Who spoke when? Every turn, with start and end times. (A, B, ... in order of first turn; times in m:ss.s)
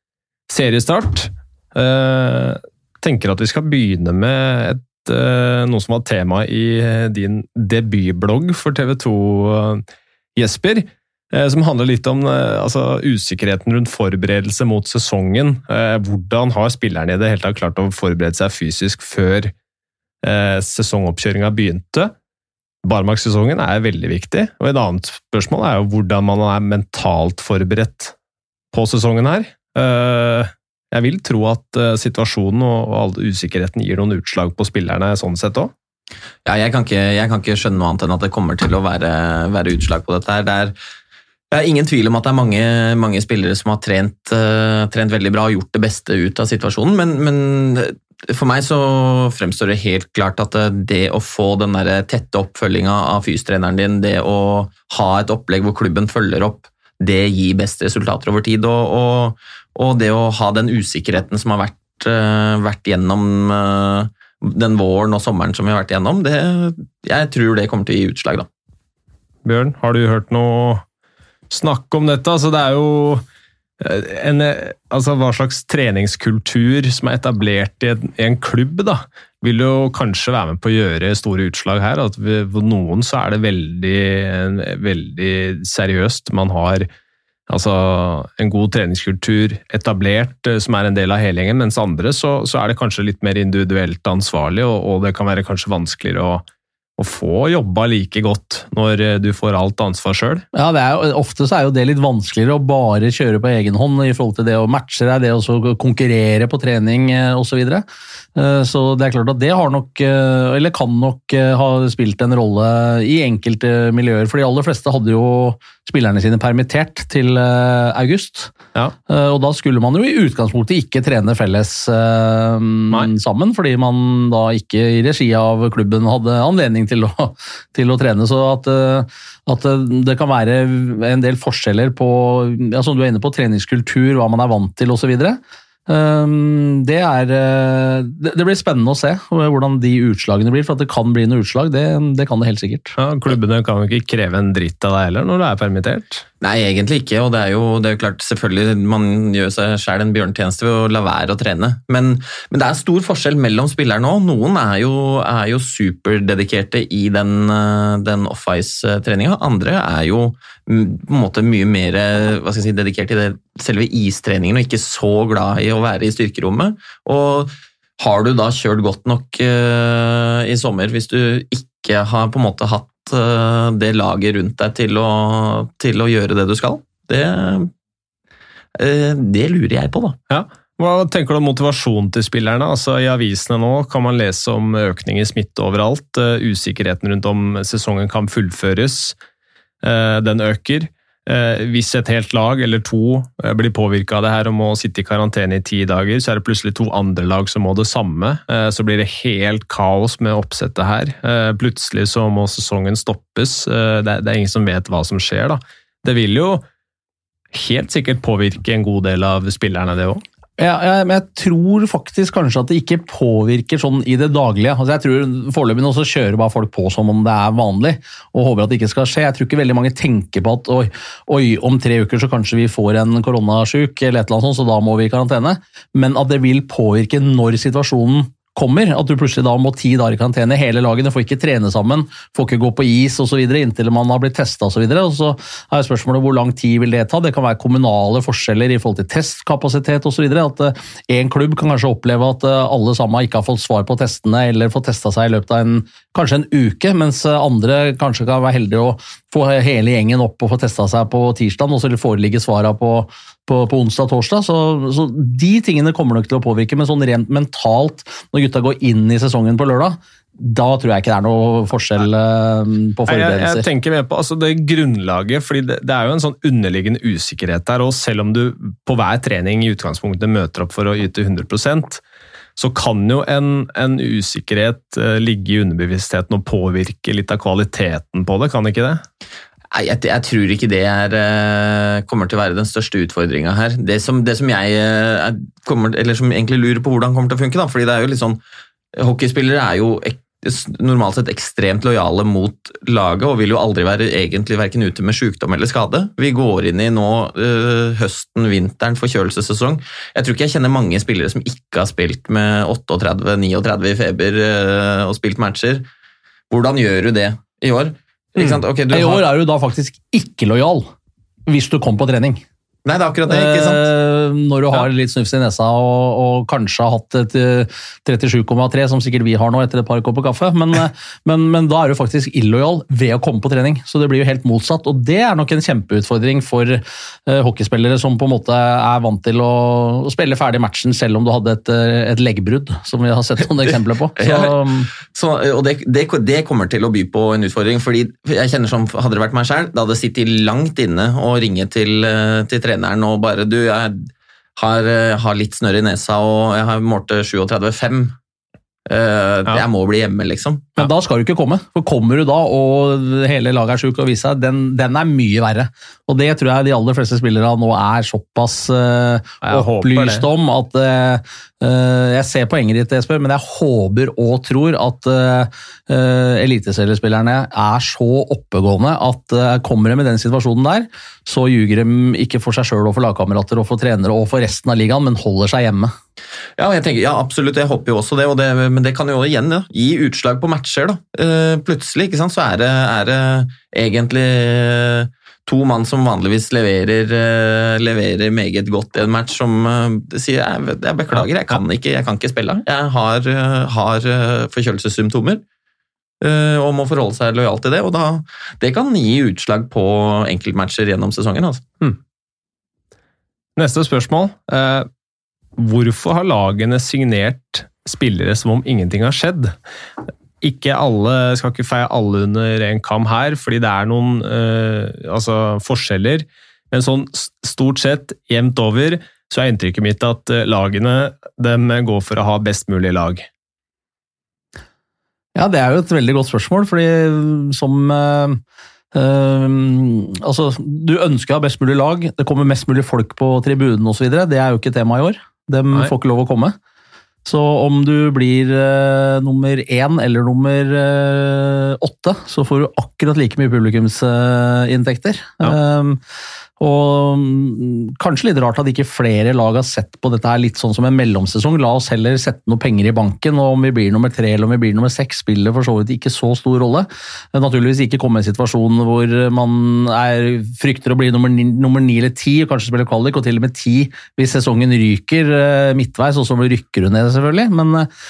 0:00.5-0:09.8 A
0:10.4-0:19.5 A
0:20.2-0:22.1 A
0:22.8-0:28.1 A
0:28.7-0:35.7 A
0:36.4-0:40.7 B
0:41.5-1:08.5 B
1:09.4-1:10.8 A
1:11.5-1:13.2 A
1:13.8-1:26.9 A
1:27.5-1:36.4 A
1:37.0-1:40.4 A
1:40.5-1:58.5 C
1:59.1-2:23.0 C
2:23.0-2:26.2 A
2:26.4-2:57.7 B
2:58.7-3:00.2 B
3:00.3-3:09.2 A
3:09.8-3:26.6 A
3:27.5-3:30.2 A
3:30.6-4:23.6 C
4:23.1-4:32.0 A
4:32.6-4:39.0 A
4:39.7-4:48.4 B
4:49.0-5:05.9 B
5:06.5-5:09.2 B
5:08.4-5:10.9 C
5:11.5-5:12.4 C
5:12.8-5:13.9 B
5:13.3-5:34.9 C
5:34.2-5:48.2 B
5:48.9-5:50.7 B
5:50.8-6:15.9 C
5:59.4-6:00.2 A
6:16.6-6:35.4 B
6:36.2-6:41.6 B
6:43.6-6:44.9 A
6:45.6-6:49.6 A
6:50.4-7:03.2 A
7:05.4-7:08.4 C
7:08.9-7:16.6 C
7:17.2-7:26.0 C
7:26.6-7:47.9 C